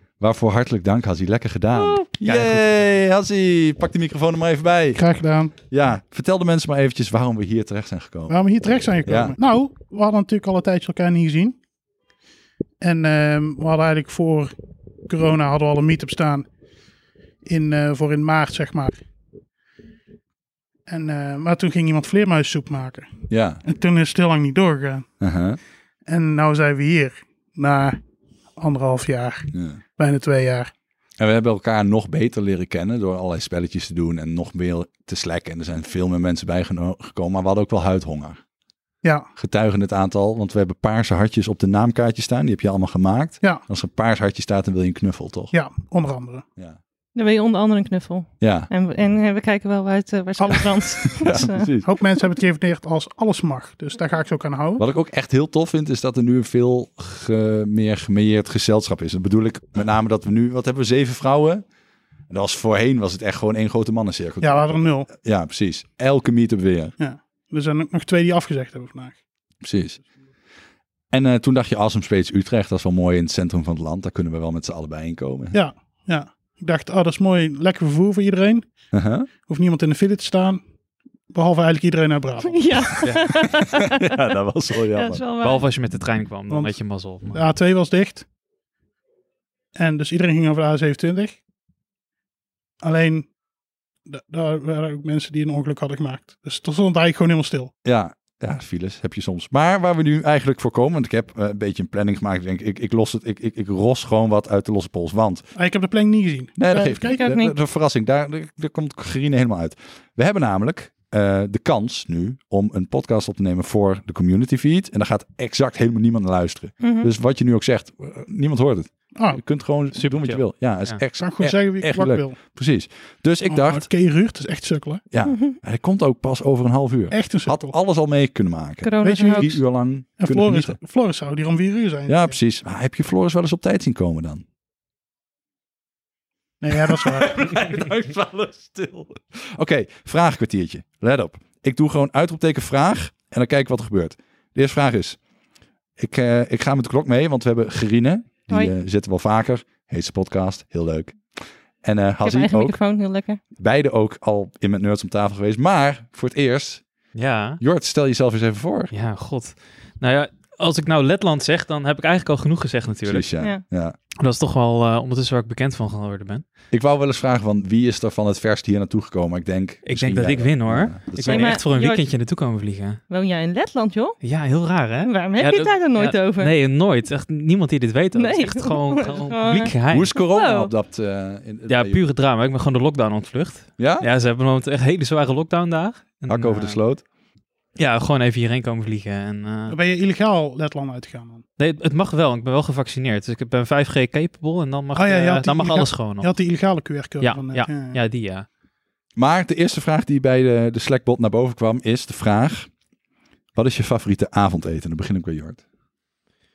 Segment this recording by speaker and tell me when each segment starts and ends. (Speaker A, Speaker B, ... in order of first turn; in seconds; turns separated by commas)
Speaker A: 0.2-5.0, Speaker B: 1.8-2.1, Speaker C: 5.0-5.5, Speaker A: 5.7-8.4, Speaker C: 8.3-11.6, Speaker A: 9.1-9.4, Speaker C: 12.8-14.5, Speaker C: 15.1-16.5, Speaker C: 17.4-19.0, Speaker C: 20.9-23.1, Speaker A: 23.3-23.6, Speaker C: 23.6-25.1, Speaker A: 25.2-25.6, Speaker C: 26.1-28.0, Speaker C: 28.6-30.7, Speaker A: 29.5-29.8, Speaker A: 31.2-38.4, Speaker C: 39.0-39.3, Speaker A: 39.4-45.5, Speaker C: 45.5-46.5, Speaker B: 47.1-51.7, Speaker A: 48.4-48.7, Speaker C: 50.4-50.9, Speaker A: 51.1-51.9, Speaker C: 51.8-54.8, Speaker A: 54.8-61.6, Speaker A: 62.3-67.0, Speaker C: 64.4-65.1, Speaker C: 67.0-69.2, Speaker A: 69.6-70.0, Speaker A: 71.1-75.6, Speaker C: 75.5-78.7, Speaker A: 78.9-79.3, Speaker C: 79.4-80.6, Speaker C: 81.3-82.7, Speaker B: 82.5-84.2, Speaker A: 83.0-85.2, Speaker B: 84.9-85.6, Speaker D: 85.4-87.4, Speaker C: 86.5-86.8, Speaker C: 87.3-88.3, Speaker C: 89.8-91.4, Speaker C: 92.8-93.3, Speaker C: 94.1-97.7, Speaker A: 97.8-105.5, Speaker C: 105.5-107.2, Speaker A: 106.6-123.9, Speaker B: 107.0-107.5, Speaker B: 116.8-117.1, Speaker C: 119.2-119.4, Speaker D: 120.2-121.0, Speaker C: 121.1-122.4, Speaker C: 123.5-125.0, Speaker A: 125.1-130.8, Speaker B: 125.3-125.6, Speaker C: 127.1-127.8, Speaker B: 128.8-129.5, Speaker C: 129.0-129.6, Speaker C: 130.2-132.4, Speaker A: 132.1-134.4, Speaker C: 136.6-137.3, Speaker A: 136.9-145.2, Speaker A: 146.0-151.2, Speaker A: 151.8-152.8, Speaker B: 152.2-153.4, Speaker A: 153.6-156.8, Speaker D: 157.1-157.6, Speaker A: 157.6-158.9, Speaker D: 158.9-163.3, Speaker A: 163.1-164.0, Speaker D: 164.2-166.4, Speaker A: 166.7-171.6, Speaker D: 169.9-173.0, Speaker B: 171.2-172.2, Speaker B: 173.1-174.2, Speaker D: 174.2-180.1, Speaker B: 175.0-176.5, Speaker B: 178.2-180.7, Speaker A: 179.9-182.0, Speaker D: 181.7-186.8, Speaker A: 183.8-184.1, Speaker A: 186.3-187.0, Speaker D: 187.8-189.8, Speaker C: 189.7-191.4, Speaker D: 191.6-196.3, Speaker C: 194.9-198.0, Speaker D: 197.2-198.5, Speaker A: 199.2-202.7, Speaker A: 203.6-205.6